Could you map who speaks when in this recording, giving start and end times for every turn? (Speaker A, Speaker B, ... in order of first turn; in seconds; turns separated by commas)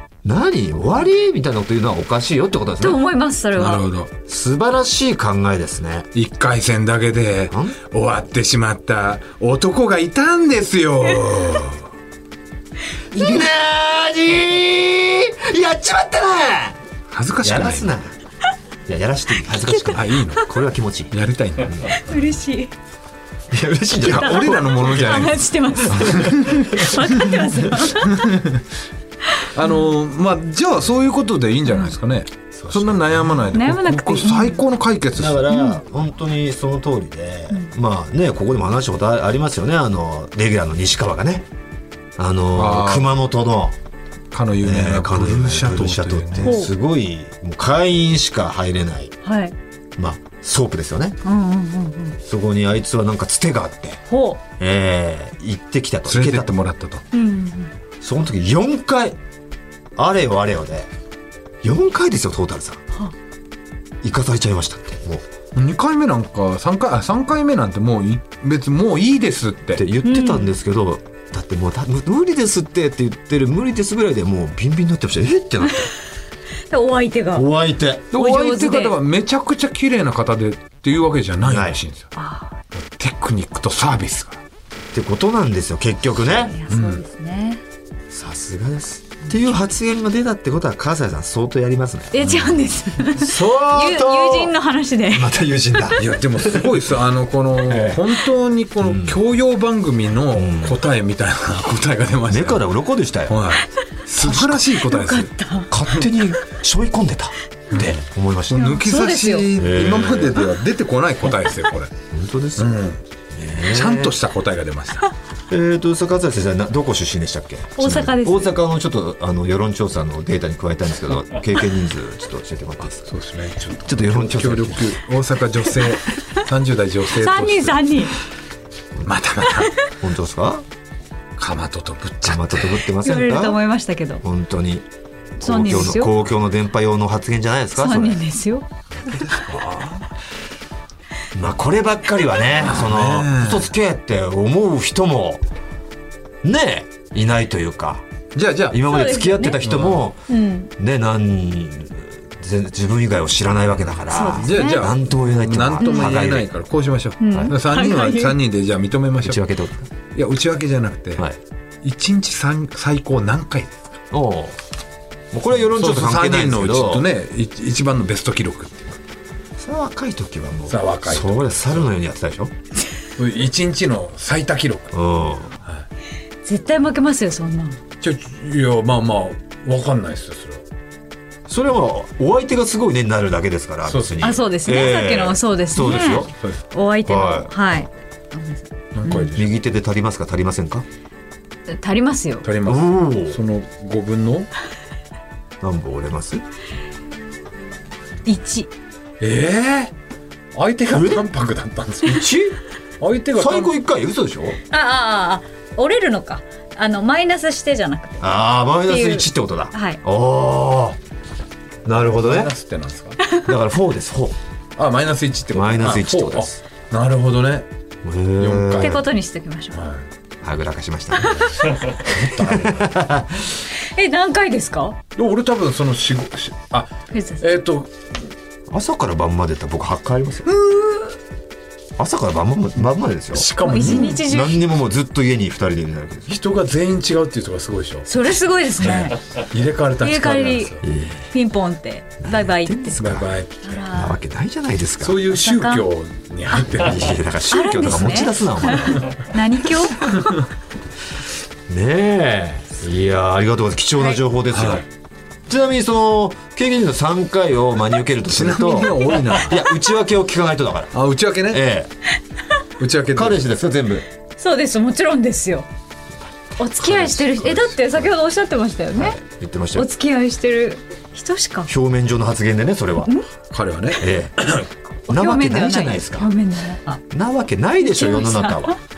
Speaker A: 0.2-3.0, Speaker B: 2.8-3.9, Speaker C: 3.6-4.1, Speaker A: 4.3-6.1, Speaker C: 6.2-11.9, Speaker A: 7.5-7.8, Speaker A: 13.1-16.8, Speaker C: 17.1-17.9, Speaker A: 17.4-18.1, Speaker A: 18.9-21.1, Speaker B: 19.6-20.4, Speaker C: 19.9-20.5, Speaker C: 21.1-22.0, Speaker A: 21.7-21.9, Speaker B: 21.9-22.7, Speaker A: 23.5-24.9, Speaker C: 24.0-27.2, Speaker B: 24.2-28.3, Speaker A: 26.1-27.7, Speaker C: 28.0-28.7, Speaker B: 29.3-29.9, Speaker C: 29.5-35.5, Speaker A: 32.5-33.5, Speaker B: 33.5-34.6, Speaker A: 35.2-41.5, Speaker B: 35.5-35.8, Speaker A: 42.2-43.8, Speaker C: 42.5-43.1, Speaker C: 44.3-46.6, Speaker A: 44.6-49.1, Speaker B: 46.5-46.7, Speaker B: 49.2-49.5, Speaker A: 50.0-51.2, Speaker B: 51.2-52.2, Speaker A: 52.2-54.0, Speaker B: 54.1-54.4, Speaker A: 54.6-56.5, Speaker C: 56.1-57.0, Speaker B: 57.1-57.7, Speaker A: 58.0-59.2, Speaker A: 60.0-60.9, Speaker A: 61.6-62.8, Speaker A: 64.0-65.2, Speaker C: 65.5-69.9, Speaker A: 69.8-75.9, Speaker B: 70.0-70.5, Speaker B: 76.7-77.5, Speaker A: 77.3-78.1, Speaker B: 78.1-79.0, Speaker C: 78.1-82.1, Speaker A: 81.5-81.8, Speaker B: 82.2-82.5, Speaker C: 82.7-84.4, Speaker A: 84.9-86.6, Speaker B: 86.4-87.6, Speaker C: 86.7-87.0, Speaker A: 88.1-92.2, Speaker B: 92.1-95.9, Speaker C: 92.2-92.6, Speaker A: 93.2-94.5, Speaker A: 95.1-96.8, Speaker C: 96.0-102.7, Speaker A: 97.7-98.1, Speaker A: 98.8-99.2, Speaker A: 100.3-100.8, Speaker A: 102.3-103.4, Speaker C: 103.3-105.3, Speaker B: 104.2-105.7, Speaker A: 104.3-104.5, Speaker A: 105.7-108.7, Speaker C: 107.7-111.9, Speaker B: 108.5-109.5, Speaker A: 109.5-110.4, Speaker A: 112.1-112.8, Speaker C: 112.6-113.0, Speaker A: 113.3-114.2, Speaker C: 113.7-115.1, Speaker A: 115.5-123.1, Speaker B: 117.8-118.6, Speaker C: 123.0-128.1, Speaker A: 123.8-125.0, Speaker B: 127.2-128.2, Speaker C: 129.1-129.7, Speaker B: 129.4-129.8, Speaker A: 129.9-130.7, Speaker C: 131.4-132.8, Speaker A: 132.2-133.6, Speaker B: 133.0-134.2, Speaker A: 134.2-134.8, Speaker B: 135.4-136.1, Speaker A: 135.4-138.2, Speaker B: 137.8-138.7, Speaker C: 139.1-140.1, Speaker A: 141.3-145.4, Speaker C: 142.6-143.7, Speaker A: 146.4-148.0, Speaker C: 148.3-148.8, Speaker A: 148.7-150.2, Speaker B: 148.9-149.6, Speaker C: 149.6-150.1, Speaker B: 150.3-150.7, Speaker A: 150.8-156.5, Speaker B: 154.1-154.9, Speaker C: 154.3-159.4, Speaker B: 155.8-156.2, Speaker B: 157.2-158.4, Speaker A: 157.3-157.6, Speaker A: 159.2-159.9, Speaker C: 160.1-161.2, Speaker C: 161.8-163.8, Speaker A: 164.1-164.6, Speaker A: 165.3-167.1, Speaker C: 165.7-168.9, Speaker A: 169.6-172.5, Speaker C: 170.7-171.9, Speaker C: 173.2-175.0, Speaker A: 174.9-175.6, Speaker B: 176.4-177.8, Speaker C: 178.0-180.6, Speaker A: 181.5-186.3, Speaker C: 183.9-184.4, Speaker B: 184.2-189.3, Speaker A: 187.1-187.8, Speaker C: 188.9-189.6, Speaker A: 189.4-190.8, Speaker B: 191.7-192.5, Speaker C: 192.4-194.5, Speaker A: 192.7-193.4, Speaker A: 195.6-196.4, Speaker B: 198.3-198.7, Speaker C: 199.2-199.9, Speaker C: 200.5-202.4, Speaker A: 200.9-201.2, Speaker A: 202.1-202.6, Speaker C: 203.0-203.8, Speaker A: 203.3-204.6, Speaker B: 204.7-210.0, Speaker A: 208.2-211.0, Speaker A: 211.8-212.5, Speaker C: 212.0-213.2, Speaker A: 213.3-214.4, Speaker C: 214.8-217.7, Speaker A: 215.5-216.6, Speaker A: 218.0-219.0, Speaker C: 218.4-219.1, Speaker B: 218.8-219.8, Speaker C: 219.7-220.1, Speaker A: 220.4-223.7, Speaker B: 221.2-221.9, Speaker C: 221.4-222.9, Speaker B: 223.8-225.0, Speaker C: 225.2-227.9, Speaker B: 227.1-227.4, Speaker A: 228.7-230.5, Speaker B: 230.5-231.2, Speaker A: 232.0-236.4, Speaker C: 233.3-234.2, Speaker B: 233.6-234.6, Speaker C: 236.3-238.2, Speaker B: 238.1-239.2, Speaker C: 238.8-240.8, Speaker B: 240.0-243.0, Speaker A: 240.8-241.3, Speaker A: 242.2-243.4, Speaker C: 243.0-243.9, Speaker B: 243.6-244.2, Speaker A: 243.9-245.2, Speaker C: 245.0-247.2, Speaker B: 245.3-245.9, Speaker A: 246.7-249.3, Speaker B: 247.5-250.5, Speaker A: 251.7-254.9, Speaker C: 254.5-254.8, Speaker A: 255.5-261.9, Speaker C: 258.2-259.6, Speaker C: 260.9-261.7, Speaker C: 262.8-263.5, Speaker A: 263.1-264.1, Speaker B: 264.4-265.7, Speaker B: 266.6-269.2, Speaker A: 266.7-268.1, Speaker A: 268.9-269.9, Speaker B: 269.8-271.7, Speaker A: 271.7-273.1, Speaker C: 273.5-274.7, Speaker A: 274.0-274.4, Speaker B: 275.1-277.0, Speaker A: 275.1-276.3, Speaker A: 277.1-278.8, Speaker B: 277.8-278.7